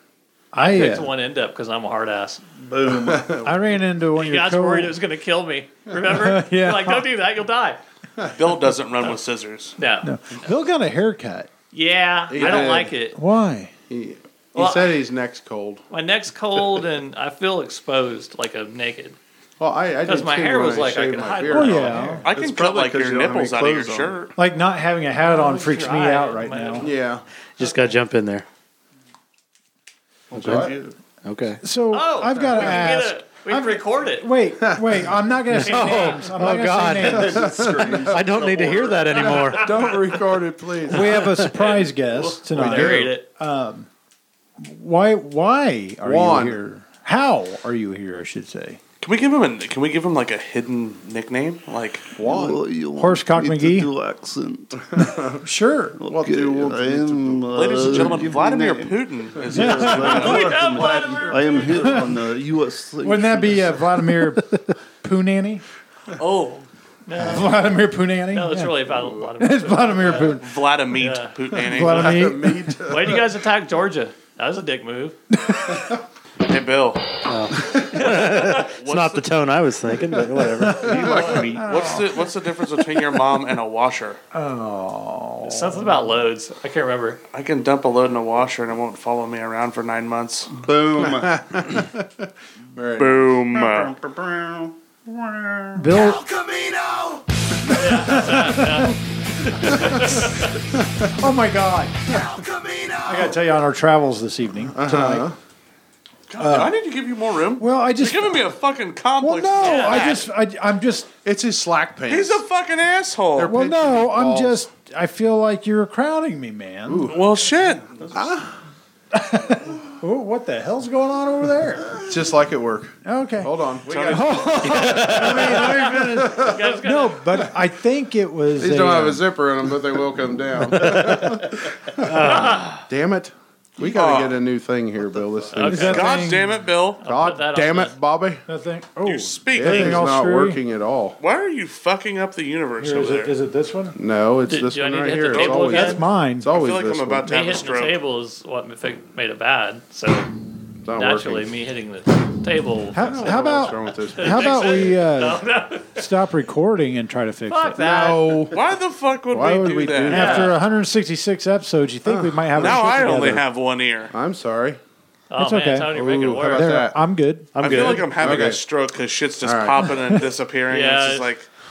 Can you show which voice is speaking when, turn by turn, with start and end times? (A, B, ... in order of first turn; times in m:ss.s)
0:00.5-0:01.1 A
0:00.6-0:02.4 B
0:02.6-0:03.4 C
0:02.9-0:03.6 D
0:03.4-0:05.0 A
0:04.2-0:07.8 B
0:06.1-0:07.1 A
0:08.3-0:09.8 E
0:09.8-0:10.1 B
0:10.0-0:11.5 A
0:11.7-0:13.2 B
0:12.3-0:12.9 D
0:13.1-0:13.7 A
0:13.9-0:15.8 D
0:14.6-0:15.0 B
0:15.9-0:19.2 B
0:19.6-0:22.2 D
0:20.0-0:22.2 B
0:21.5-0:22.3 A
0:22.2-0:24.3 E
0:22.3-0:24.2 C
0:24.4-0:26.9 A
0:25.2-0:26.9 B
0:26.8-0:27.2 D
0:27.6-0:28.5 F
0:30.3-0:31.0 C
0:30.4-0:30.7 F
0:30.4-0:30.7 D
0:31.2-0:31.6 F
0:31.6-0:37.5 A
0:31.9-0:34.3 B
0:34.7-0:35.0 D
0:35.5-0:37.4 F
0:35.6-0:36.3 B
0:37.0-0:39.5 C
0:37.4-0:38.3 D
0:38.0-0:39.7 F
0:39.2-0:41.2 D
0:39.4-0:40.0 B
0:40.9-0:43.9 A
0:41.6-0:43.2 B
0:42.6-0:43.0 D
0:44.6-0:48.8 A
0:46.0-0:46.6 D
0:49.0-0:52.1 E
0:52.2-0:52.6 D
0:52.2-0:54.8 C
0:53.0-0:53.9 A
0:55.0-0:55.4 D
0:55.3-0:56.0 A
0:56.0-1:04.0 C
0:56.0-0:58.3 D
0:57.5-1:00.7 E
0:59.5-1:00.3 A
1:00.0-1:02.0 B
1:03.0-1:05.6 A
1:06.2-1:06.7 E
1:07.1-1:11.4 B
1:07.2-1:08.8 A
1:09.4-1:10.4 A
1:10.4-1:12.2 E
1:11.6-1:13.3 D
1:11.6-1:12.8 A
1:12.8-1:15.2 B
1:15.3-1:15.9 A
1:16.4-1:17.0 E
1:17.3-1:21.4 F
1:18.0-1:19.3 E
1:18.1-1:18.7 B
1:20.8-1:21.6 D
1:20.9-1:21.6 C
1:21.0-1:21.5 B
1:21.5-1:22.1 A
1:21.5-1:24.2 E
1:24.3-1:26.1 A
1:25.4-1:27.2 B
1:27.3-1:30.5 E
1:30.6-1:31.4 C
1:31.0-1:33.4 D
1:33.0-1:33.9 E
1:33.5-1:37.2 C
1:35.8-1:36.2 A
1:37.7-1:40.5 B
1:37.7-1:39.0 A
1:39.6-1:40.0 A
1:41.2-1:42.2 A
1:42.1-1:43.4 C
1:43.0-1:45.3 A
1:44.7-1:45.4 D
1:46.3-1:50.3 E
1:46.4-1:46.8 A
1:47.6-1:48.4 A
1:49.2-1:51.1 A
1:49.6-1:50.2 B
1:51.2-1:52.4 D
1:52.1-1:53.5 E
1:53.4-1:54.7 D
1:53.4-1:57.1 A
1:56.9-1:58.5 D
1:57.1-1:57.8 E
1:58.0-1:58.3 C
1:59.1-2:02.0 A
2:02.0-2:06.8 D
2:03.0-2:09.3 A
2:03.9-2:04.5 E
2:04.7-2:05.4 F
2:05.4-2:07.4 B
2:08.6-2:12.2 D
2:10.9-2:11.2 F
2:12.0-2:12.7 F
2:12.2-2:12.8 B
2:12.9-2:16.1 D
2:13.9-2:14.4 E
2:15.5-2:16.2 B
2:15.6-2:16.5 A
2:15.8-2:17.0 E
2:17.0-2:18.0 B
2:17.0-2:18.4 D
2:18.5-2:20.6 A
2:19.1-2:20.1 E
2:19.5-2:21.2 D
2:21.2-2:23.3 E
2:22.8-2:24.0 A
2:24.0-2:27.3 D
2:24.5-2:26.0 B
2:25.4-2:26.5 A
2:26.5-2:28.0 E
2:27.2-2:30.3 B
2:30.8-2:31.5 D
2:30.9-2:36.1 B
2:32.9-2:35.4 A
2:33.0-2:34.8 D
2:36.0-2:37.8 A
2:37.5-2:38.4 B
2:37.8-2:38.6 D
2:38.5-2:40.5 E
2:39.3-2:40.6 D
2:40.1-2:40.5 B
2:40.1-2:43.4 A
2:42.1-2:42.9 D
2:42.6-2:44.1 E
2:44.1-2:44.8 D
2:45.3-2:46.8 B
2:45.4-2:45.9 A
2:45.9-2:47.0 D
2:46.5-2:48.0 A
2:47.6-2:48.2 F
2:47.6-2:51.5 E
2:48.1-2:48.6 D
2:49.4-2:49.9 D
2:50.7-2:51.3 B